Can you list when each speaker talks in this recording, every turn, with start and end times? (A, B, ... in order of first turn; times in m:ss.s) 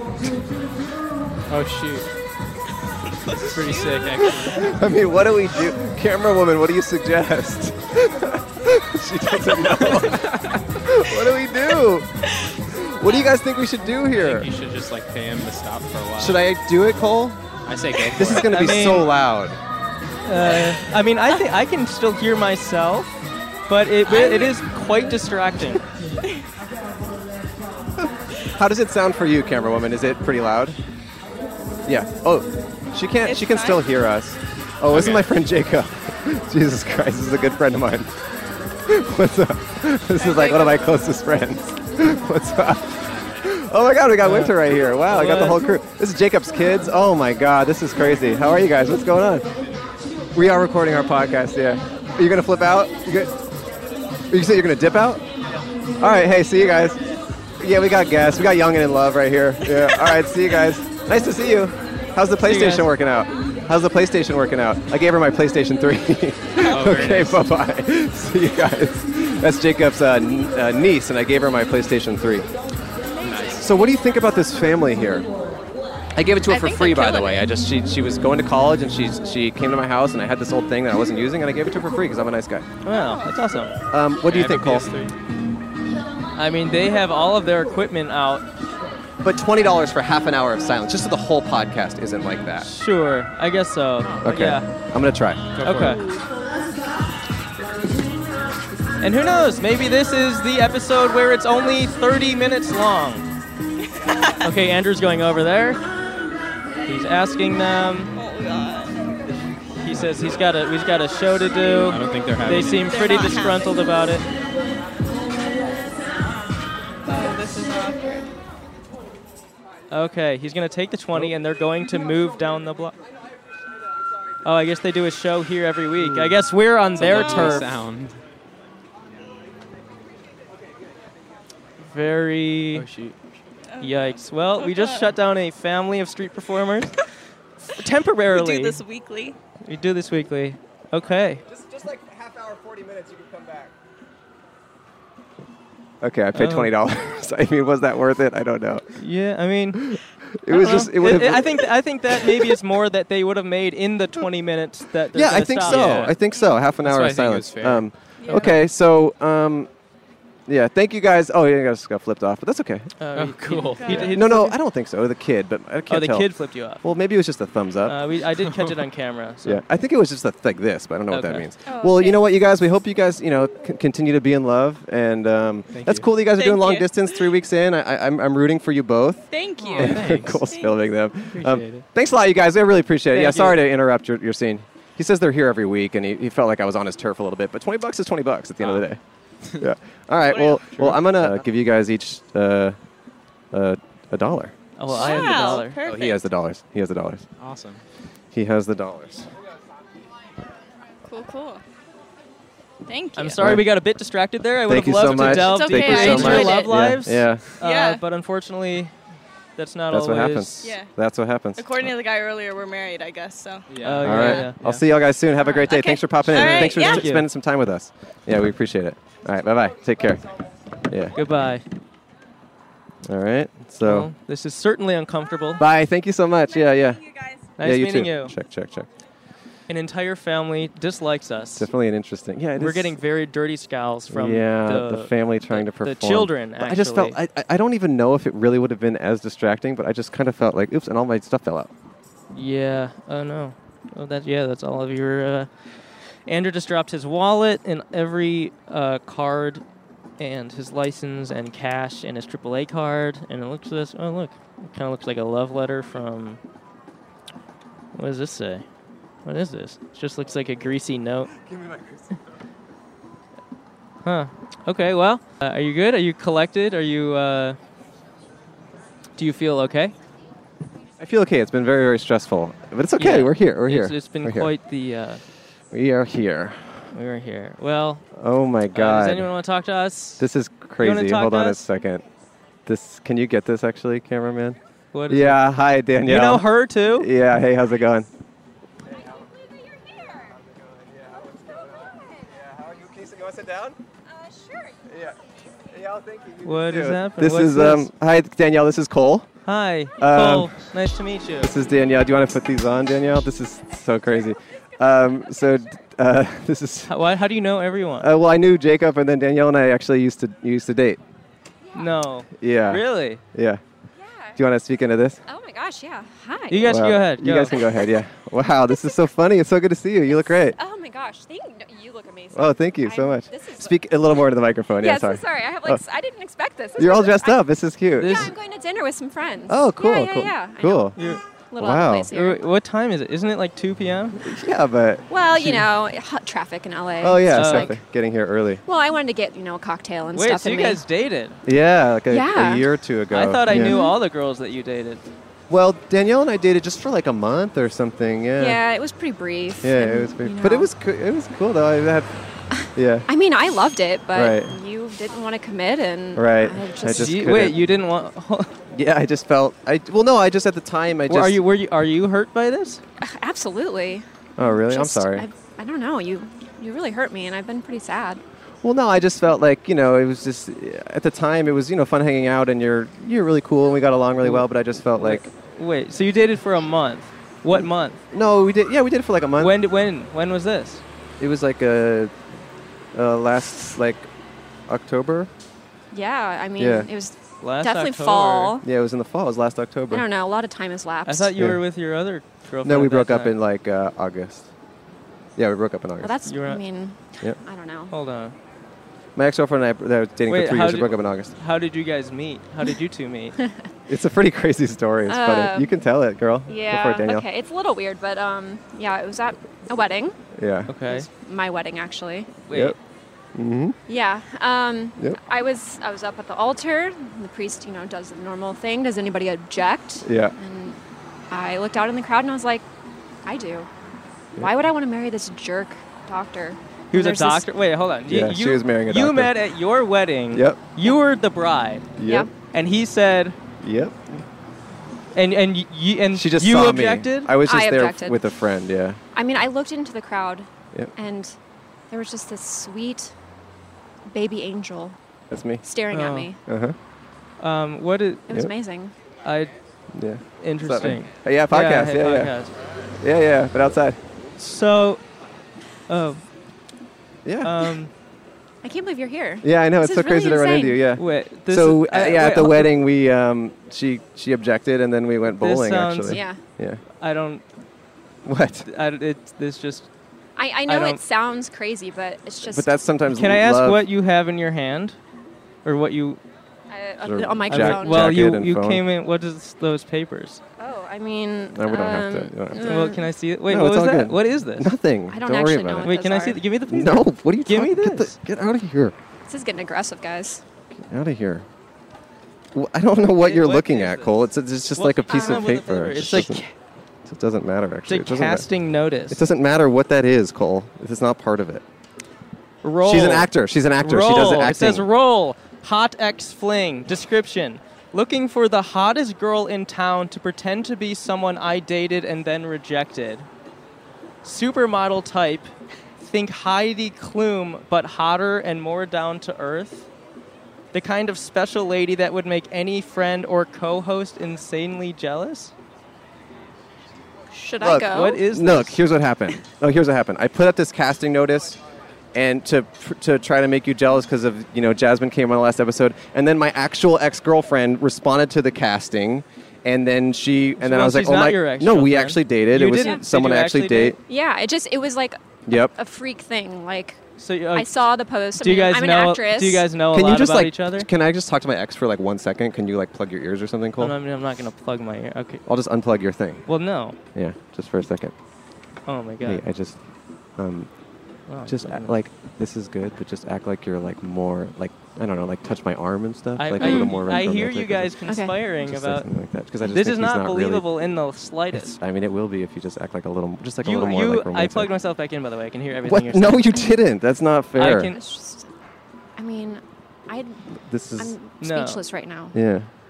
0:01.5-0:02.1 A
0:03.2-0:04.3 B
0:03.4-0:04.7 A
0:04.5-0:12.1 C
0:09.9-0:10.4 A
0:12.6-0:14.5 C
0:14.1-0:16.4 A
0:16.2-0:17.4 C
0:17.6-0:18.5 A
0:18.1-0:19.6 C
0:18.4-0:19.1 D
0:20.2-0:23.1 D
0:20.4-0:20.8 B
0:23.7-0:25.8 D
0:24.0-0:24.6 B
0:28.0-0:30.8 C
0:31.8-0:38.1 C
0:33.2-0:33.8 B
0:34.9-0:35.3 A
0:38.9-0:49.5 C
0:40.2-0:40.9 B
0:43.0-0:43.6 A
0:44.2-0:45.6 D
0:50.3-0:53.4 C
0:54.3-0:55.2 C
0:56.0-0:57.0 C
0:57.6-1:12.5 C
1:02.4-1:02.9 D
1:06.6-1:07.0 B
1:06.7-1:07.4 A
1:13.1-1:13.7 B
1:13.2-1:13.6 A
1:13.6-1:15.3 C
1:16.2-1:22.7 C
1:16.5-1:17.4 B
1:22.8-1:23.7 D
1:22.9-1:23.4 B
1:23.9-1:24.9 C
1:24.2-1:25.1 A
1:26.4-1:28.4 D
1:29.2-1:32.7 C
1:32.6-1:34.6 D
1:34.0-1:34.3 A
1:34.2-1:35.5 C
1:35.5-1:36.0 A
1:35.6-1:36.0 D
1:39.0-1:43.2 D
1:43.9-1:44.4 B
1:44.4-1:45.8 D
1:46.9-1:48.1 D
1:48.1-1:49.0 B
1:49.8-1:54.2 D
1:49.9-1:50.4 A
1:51.9-1:52.9 A
1:52.9-1:53.7 B
1:57.1-1:58.2 B
1:59.9-2:03.0 D
2:04.4-2:07.7 D
2:06.0-2:06.4 A
2:07.0-2:08.2 A
2:07.0-2:07.6 B
2:11.8-2:12.8 D
2:12.7-2:13.2 A
2:13.7-2:15.1 B
2:13.8-2:17.0 D
2:17.7-2:18.8 D
2:18.3-2:19.4 B
2:19.6-2:21.4 D
2:21.5-2:23.7 C
2:26.0-2:29.0 C
2:26.3-2:26.7 D
2:29.0-2:36.1 D
2:29.7-2:32.6 C
2:35.1-2:39.7 C
2:35.6-2:36.2 A
2:36.8-2:37.9 A
2:38.2-2:38.5 B
2:40.5-2:42.9 C
2:43.0-2:44.6 D
2:43.1-2:44.1 A
2:43.8-2:44.2 B
2:43.9-2:48.0 C
2:45.9-2:46.8 D
2:47.8-2:49.6 D
2:48.4-2:48.8 A
2:49.4-3:09.0 C
2:51.1-2:51.4 D
2:51.6-2:52.2 B
2:55.7-2:56.1 A
2:56.4-2:57.3 B
2:59.3-3:00.7 B
2:59.6-3:00.4 A
3:01.3-3:01.8 A
3:03.1-3:03.6 D
3:08.6-3:08.8 A
3:09.6-3:12.8 C
3:10.3-3:10.6 B
3:10.7-3:11.4 A
3:13.5-3:14.5 C
3:14.8-3:15.8 D
3:14.9-3:16.2 B
3:15.0-3:15.4 A
3:15.8-3:17.2 C
3:17.4-3:17.8 A
3:18.3-3:19.3 C
3:21.0-3:21.6 B
3:22.8-3:23.5 B
3:23.2-3:28.9 D
3:23.4-3:23.7 C
3:24.6-3:27.4 C
3:25.2-3:26.9 B
3:27.6-3:28.0 B
3:29.6-3:30.7 D
3:29.9-3:31.8 C
3:30.6-3:30.9 B
3:31.6-3:34.5 B
3:33.7-3:34.8 A
3:33.8-3:34.6 D
3:34.0-3:40.2 C
3:35.4-3:37.1 B
3:36.3-3:37.3 D
3:40.9-3:41.2 C
3:41.1-3:41.6 D
3:43.0-3:44.1 C
3:43.8-3:45.6 D
3:45.6-3:47.0 C
3:47.6-3:48.3 D
3:47.6-3:48.9 C
3:49.7-3:51.7 D
3:51.6-3:53.0 C
3:52.6-3:57.2 D
3:54.1-4:01.7 C
4:02.3-4:05.7 D
4:06.2-4:09.6 D
4:10.2-4:16.4 D
4:17.9-4:18.6 D
4:19.2-4:21.3 D
4:21.4-4:22.1 C
4:24.0-4:27.6 D
4:29.2-4:29.9 D
4:31.0-4:34.5 C
4:33.0-4:35.2 D
4:35.7-4:36.8 C
4:36.9-4:38.0 D
4:38.1-4:39.3 C
4:38.7-4:40.2 D
4:40.2-4:42.0 C
4:40.8-4:41.7 D
4:42.6-4:44.6 C
4:44.9-4:45.4 D
4:45.1-4:48.1 C
4:46.0-4:47.1 D
4:49.0-4:49.2 C
4:49.5-4:50.2 E
4:50.2-4:53.8 C
4:54.1-4:54.8 E
4:54.9-4:59.3 C
4:56.4-4:57.9 D
4:59.4-5:01.5 D
5:00.0-5:00.5 C
5:01.4-5:06.9 C
5:06.9-5:08.1 D
5:08.0-5:11.0 C
5:11.7-5:13.2 D
5:12.4-5:13.6 C
5:14.0-5:14.3 E
5:14.4-5:15.2 C
5:15.3-5:16.8 E
5:16.5-5:17.5 D
5:16.6-5:20.6 C
5:20.1-5:23.9 E
5:22.3-5:25.8 C
5:24.8-5:32.4 E
5:26.8-5:28.3 C
5:28.0-5:28.3 D
5:29.5-5:31.0 C
5:31.0-5:31.2 D
5:31.6-5:32.1 C
5:32.1-5:34.2 D
5:34.2-5:35.6 C
5:35.1-5:37.8 E
5:37.0-5:38.6 C
5:37.3-5:37.7 D
5:38.6-5:40.8 E
5:40.1-5:41.4 D
5:41.4-5:43.8 C
5:42.1-5:42.7 E
5:43.1-5:45.0 D
5:43.5-5:44.0 E
5:45.5-5:48.6 C
5:48.4-5:50.7 E
5:49.6-5:52.1 C
5:52.6-5:57.5 E
5:52.7-5:53.1 C
5:54.1-5:54.5 C
5:56.2-5:57.6 C
5:56.8-5:58.5 D
5:58.7-6:01.4 C
6:01.1-6:02.8 D
6:03.0-6:08.2 E
6:04.4-6:05.3 C
6:08.6-6:15.3 C
6:14.2-6:18.0 D
6:17.5-6:19.6 C
6:19.4-6:20.8 D
6:21.2-6:22.1 C
6:22.9-6:24.1 C
6:24.7-6:25.3 C
6:25.9-6:28.6 E
6:26.6-6:26.9 C
6:27.4-6:28.5 D
6:28.6-6:30.0 C
6:29.9-6:31.3 E
6:31.0-6:33.4 D
6:31.4-6:31.6 C
6:32.6-6:34.5 C
6:35.4-6:36.2 C
6:36.0-6:37.9 E
6:36.2-6:36.6 D
6:37.9-6:38.3 D
6:39.2-6:41.3 C
6:40.3-6:43.4 D
6:43.9-6:47.2 C
6:45.1-6:45.7 E
6:46.5-6:50.2 E
6:50.3-6:50.7 C
6:50.7-6:51.1 D
6:50.9-6:52.4 E
6:52.4-6:52.7 D
6:52.5-6:52.8 C
6:53.3-6:53.8 C
6:53.9-7:00.8 E
7:00.0-7:00.3 C
7:01.3-7:02.6 E
7:03.2-7:03.7 E
7:04.4-7:07.5 E
7:06.9-7:11.9 D
7:08.1-7:09.3 C
7:10.3-7:10.8 C
7:12.0-7:12.3 C
7:12.0-7:12.3 E
7:12.5-7:13.4 D
7:13.6-7:14.2 C
7:15.1-7:17.3 D
7:16.1-7:19.0 C
7:17.4-7:18.2 E
7:19.1-7:21.4 E
7:21.9-7:23.1 E
7:24.1-7:25.0 E
7:25.3-7:25.6 C
7:25.6-7:26.4 E
7:25.9-7:26.3 D
7:26.5-7:26.8 C
7:27.4-7:28.2 D
7:28.3-7:28.9 E
7:29.2-7:29.5 D
7:29.9-7:32.3 C
7:30.4-7:32.5 D
7:33.0-7:34.0 C
7:34.4-7:35.0 D
7:35.9-7:36.2 D
7:37.2-7:37.7 C
7:37.4-7:37.9 D
7:38.6-7:40.8 E
7:39.4-7:46.8 C
7:41.0-7:42.7 D
7:45.4-7:46.2 D
7:46.1-7:46.4 E
7:47.0-7:47.4 D
7:48.2-7:48.6 C
7:48.6-7:49.9 D
7:50.4-7:52.7 E
7:50.7-7:51.0 D
7:52.4-7:53.8 C
7:53.1-7:55.0 D
7:55.6-7:56.2 D
7:56.7-7:58.2 E
7:57.0-7:58.8 C
7:57.5-8:00.4 D
8:00.6-8:03.1 E
8:01.5-8:02.9 C
8:02.6-8:04.7 D
8:03.4-8:05.9 C
8:05.1-8:06.5 E
8:05.8-8:08.2 D
8:06.7-8:08.9 C
8:09.3-8:10.4 E
8:10.7-8:11.4 C
8:12.5-8:16.4 C
8:13.2-8:14.2 D
8:14.7-8:16.5 D
8:15.1-8:15.6 E
8:17.0-8:18.5 C
8:17.9-8:19.2 D
8:19.1-8:21.6 C
8:22.6-8:33.3 D
8:22.8-8:24.9 C
8:34.2-8:39.9 D
8:40.7-8:45.5 D
8:47.3-8:48.2 E
8:47.6-8:51.6 C
8:47.8-8:48.8 D
8:52.1-9:04.0 C
9:00.6-9:04.0 D
9:02.7-9:03.0 E
9:04.0-9:07.0 E
9:05.5-9:05.7 C
9:07.2-9:07.7 D
9:07.5-9:09.7 E
9:08.4-9:10.9 D
9:09.9-9:14.0 C
9:13.8-9:15.4 D
9:15.4-9:16.4 C
9:16.5-9:17.0 D
9:17.1-9:18.1 C
9:18.9-9:19.4 D
9:19.2-9:19.8 C
9:20.4-9:20.7 C
9:21.3-9:21.9 D
9:21.4-9:28.0 C
9:26.4-9:29.1 D
9:26.6-9:27.0 E
9:28.1-9:28.4 E
9:28.6-9:30.7 C
9:29.6-9:31.8 D
9:31.5-9:34.7 C
9:33.6-9:36.5 D
9:35.8-9:37.9 C
9:37.5-9:38.0 D
9:37.7-9:38.5 E
9:39.2-9:40.4 E
9:40.6-9:41.1 C
9:41.0-9:42.4 E
9:41.4-9:41.8 D
9:42.3-9:42.7 C